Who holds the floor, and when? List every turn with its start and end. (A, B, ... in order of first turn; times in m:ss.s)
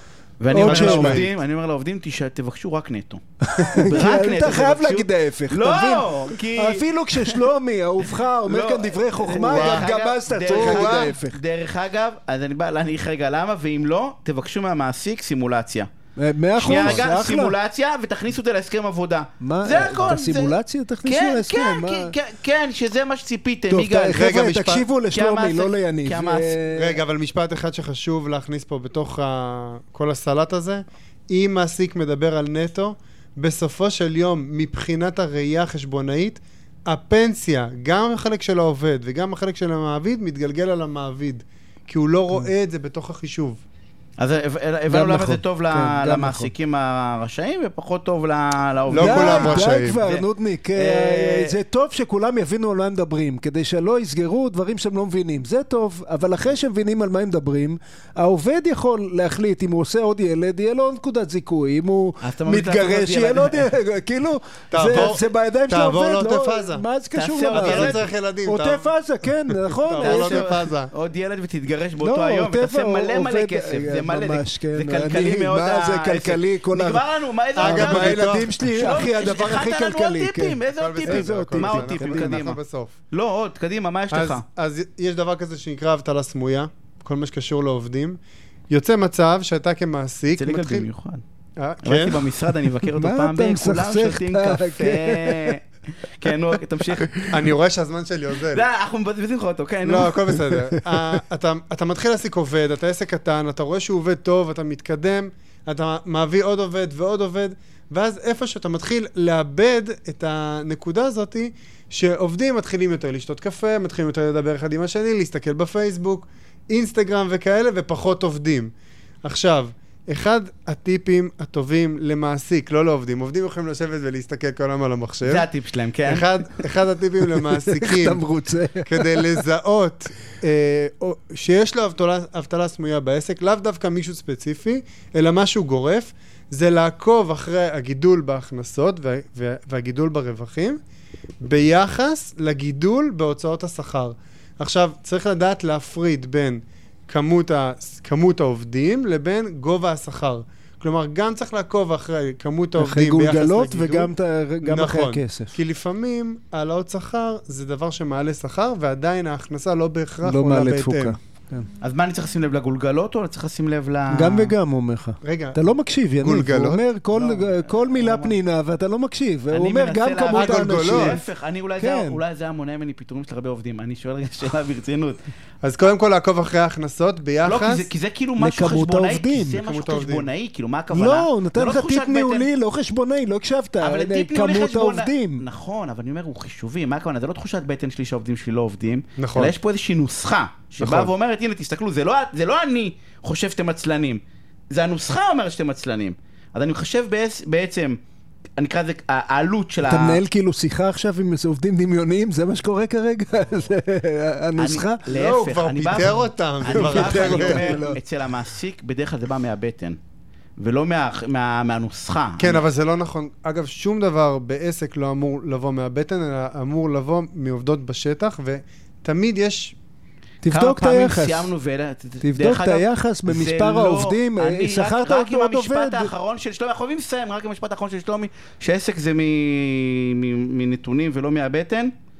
0:00.4-0:03.2 A
0:00.5-0:01.3 B
0:00.6-0:01.2 C
0:03.4-0:11.4 B
0:03.7-0:07.4 A
0:08.4-0:15.9 A
0:09.5-0:09.9 C
0:10.7-0:11.1 C
0:16.2-0:17.6 B
0:16.5-0:24.3 A
0:19.4-0:22.1 B
0:23.7-0:27.0 B
0:24.1-0:24.8 C
0:25.1-0:26.6 A
0:26.7-0:43.6 C
0:44.2-0:51.5 A
0:44.9-0:46.5 B
0:48.9-0:50.0 C
0:48.9-1:10.6 B
1:02.2-1:03.7 A
1:04.7-1:06.8 C
1:04.9-1:05.2 A
1:07.1-1:08.0 A
1:07.5-1:08.9 C
1:09.9-1:10.9 C
1:10.0-1:22.6 A
1:12.0-1:17.0 B
1:17.6-1:18.5 C
1:17.6-1:22.4 B
1:20.8-1:23.0 C
1:23.1-1:24.4 A
1:24.1-1:30.9 C
1:30.4-1:31.2 A
1:31.6-1:32.2 C
1:31.8-1:37.2 A
1:32.9-1:35.6 B
1:37.0-1:37.4 B
1:37.3-1:38.6 C
1:38.5-1:40.2 A
1:39.8-1:58.7 C
1:40.5-1:41.1 B
1:59.2-2:05.5 C
2:05.2-2:06.4 A
2:06.0-2:08.2 C
2:07.3-2:09.4 B
2:08.8-2:20.8 C
2:21.4-2:34.1 C
2:32.8-2:35.6 B
2:34.6-2:41.1 C
2:40.2-2:41.7 B
2:41.8-2:44.5 A
2:44.1-2:51.2 B
2:45.2-2:45.6 C
2:46.2-2:46.8 C
2:47.1-2:48.4 A
2:49.5-2:55.2 A
2:50.3-2:51.1 C
2:51.8-2:52.2 B
2:55.6-2:57.9 C
2:57.4-3:02.5 A
2:58.4-2:59.6 B
2:59.6-3:00.3 C
3:00.9-3:05.4 B
3:03.8-3:18.0 A
3:09.2-3:09.5 C
3:18.6-3:20.2 A
3:19.8-3:25.0 B
3:24.6-3:30.0 A
3:25.2-3:27.6 C
3:26.6-3:28.0 B
3:30.6-3:32.6 A
3:32.4-3:39.7 C
3:40.4-3:41.5 B
3:40.5-3:51.9 A
3:42.2-3:46.1 B